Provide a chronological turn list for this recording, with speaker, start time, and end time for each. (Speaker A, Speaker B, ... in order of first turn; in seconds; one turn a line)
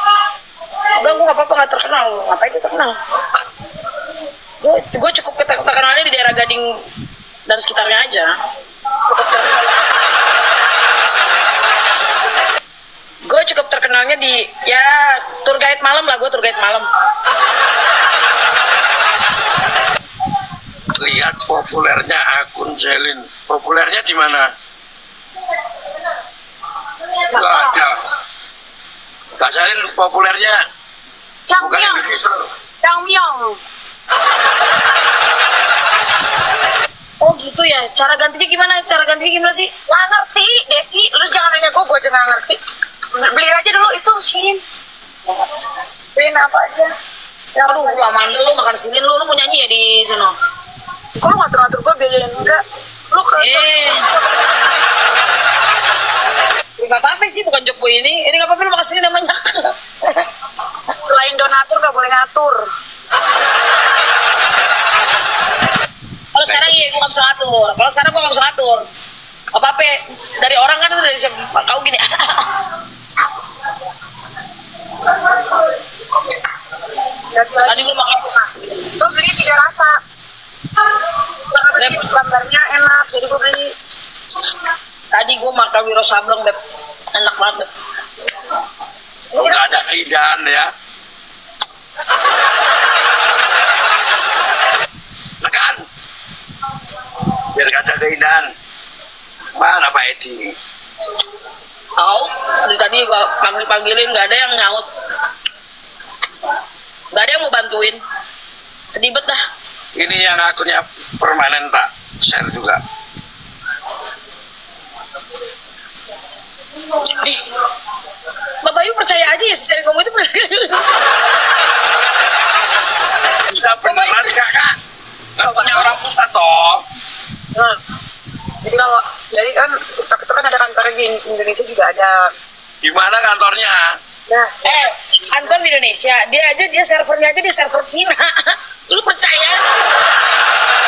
Speaker A: 1.0-3.0
Speaker A: 4.6-6.7
Speaker A: 7.5-8.3
Speaker B: 9.1-9.7
Speaker A: 13.2-16.9
Speaker C: 20.9-24.5
Speaker B: 27.3-27.9
Speaker C: 27.3-28.0
Speaker C: 29.4-30.6
Speaker B: 31.5-32.1
Speaker C: 31.6-32.5
Speaker B: 32.8-33.6
Speaker A: 37.2-39.7
Speaker B: 39.9-42.6
Speaker B: 43.1-44.6
Speaker B: 46.1-46.9
Speaker B: 47.5-48.1
Speaker A: 47.6-50.3
Speaker B: 51.1-54.4
Speaker A: 53.4-54.0
Speaker A: 56.8-60.3
Speaker B: 61.0-62.7
Speaker A: 66.3-68.8
Speaker C: 66.5-66.8
Speaker A: 69.5-72.6
Speaker B: 77.3-80.0
Speaker A: 77.6-78.2
Speaker B: 81.4-83.7
Speaker A: 81.8-82.0
Speaker A: 85.1-86.6
Speaker A: 87.1-87.7
Speaker B: 89.3-89.7
Speaker C: 89.3-90.7
Speaker C: 95.4-95.8
Speaker C: 97.5-98.5
Speaker C: 99.6-100.5
Speaker A: 102.0-104.8
Speaker A: 107.1-108.0
Speaker A: 108.9-109.4
Speaker C: 109.9-112.8
Speaker A: 117.0-117.4
Speaker A: 118.6-120.9
Speaker C: 123.5-124.8
Speaker C: 125.4-126.8
Speaker B: 125.4-125.9
Speaker B: 128.6-132.3
Speaker C: 132.8-133.9
Speaker B: 134.3-134.7
Speaker A: 134.6-139.6